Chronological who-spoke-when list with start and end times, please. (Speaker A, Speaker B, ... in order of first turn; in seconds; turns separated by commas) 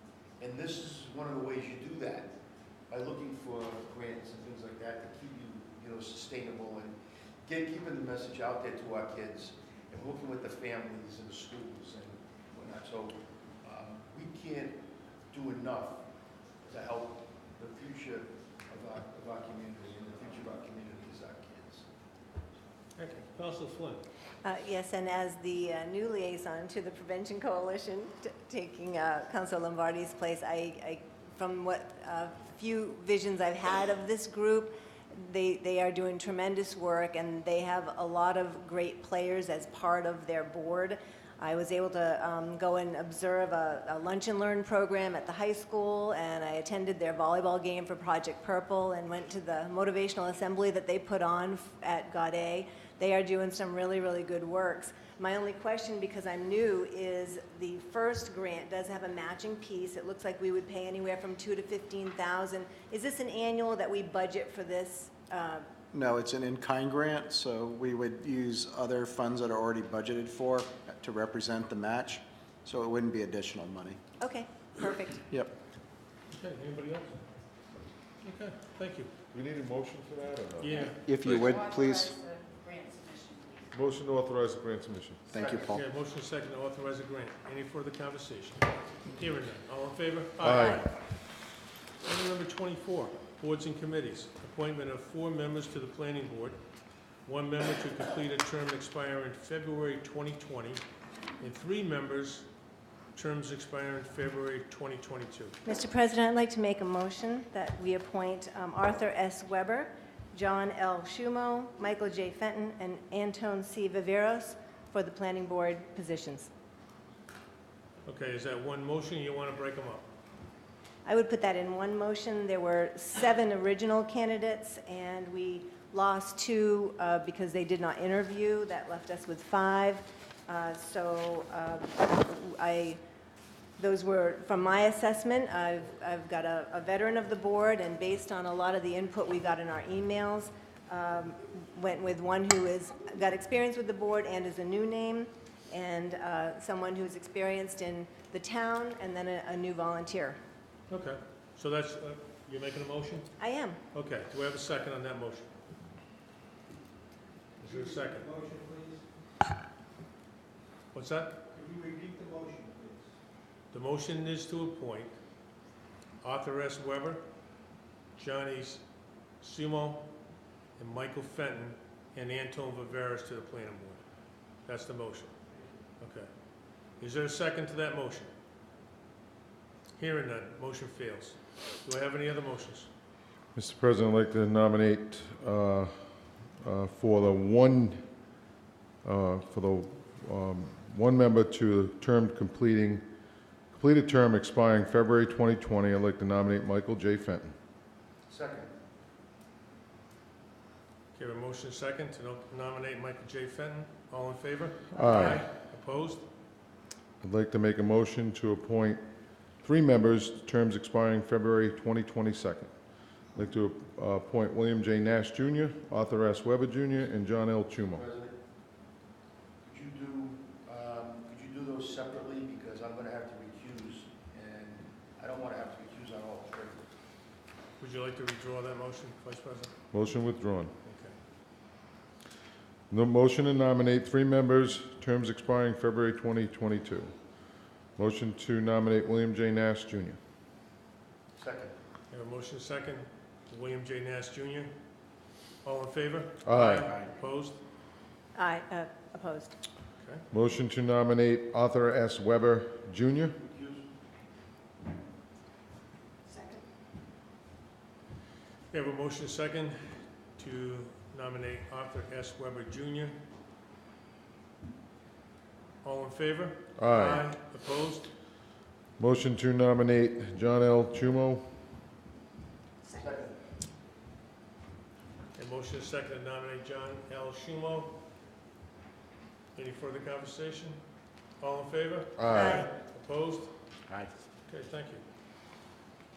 Speaker A: 0.4-2.3, Speaker A: 2.9-16.0, Speaker A: 16.6-21.9, Speaker B: 23.0-24.1, Speaker C: 24.4-65.7, Speaker D: 65.9-74.0, Speaker C: 74.2-75.2, Speaker B: 76.4-77.2, Speaker B: 78.2-79.1, Speaker E: 79.3-80.9, Speaker B: 80.6-81.0, Speaker D: 81.0-82.2, Speaker F: 81.5-83.6, Speaker E: 83.7-85.2, Speaker D: 85.3-85.8, Speaker A: 85.3-85.7, Speaker B: 85.7-91.0, Speaker E: 90.4-90.9, Speaker B: 92.0-96.6, Speaker B: 97.3-100.8, Speaker B: 101.4-102.5, Speaker B: 103.2-105.6, Speaker C: 105.7-116.5, Speaker B: 118.1-120.1, Speaker C: 121.0-133.0, Speaker C: 133.8-150.4, Speaker B: 150.9-153.3, Speaker C: 153.4-153.8, Speaker B: 153.9-155.5, Speaker B: 157.6-158.3, Speaker G: 158.3-158.9, Speaker B: 160.9-161.4, Speaker G: 161.6-163.0, Speaker B: 163.7-165.1, Speaker B: 166.2-167.2, Speaker B: 168.2-168.8, Speaker B: 169.4-170.1, Speaker B: 170.8-174.0, Speaker B: 174.7-175.3, Speaker B: 176.0-176.3, Speaker B: 177.0-178.3, Speaker B: 180.0-182.9, Speaker E: 183.6-186.1, Speaker E: 186.6-188.0, Speaker E: 189.0-193.1, Speaker E: 193.7-197.5, Speaker A: 198.3-198.7, Speaker B: 201.2-206.2, Speaker E: 204.9-205.5, Speaker E: 207.2-209.0, Speaker E: 209.6-212.7, Speaker E: 213.3-218.0, Speaker A: 217.9-218.4, Speaker A: 219.6-226.9, Speaker B: 227.8-229.7, Speaker E: 229.9-230.7, Speaker B: 230.8-231.1, Speaker E: 232.9-237.1, Speaker E: 238.0-240.2, Speaker A: 241.4-241.7, Speaker B: 242.1-244.7, Speaker B: 245.6-247.6, Speaker E: 246.4-247.0, Speaker C: 248.3-249.6, Speaker E: 250.3-253.4, Speaker A: 253.4-253.9, Speaker B: 258.7-259.8, Speaker B: 260.4-263.2, Speaker B: 265.8-268.1, Speaker E: 266.8-267.3, Speaker E: 269.0-271.5, Speaker A: 272.9-273.4, Speaker B: 275.4-278.0, Speaker B: 279.6-280.8, Speaker B: 281.4-283.5, Speaker E: 282.2-282.7, Speaker C: 282.3-282.7, Speaker B: 284.5-285.0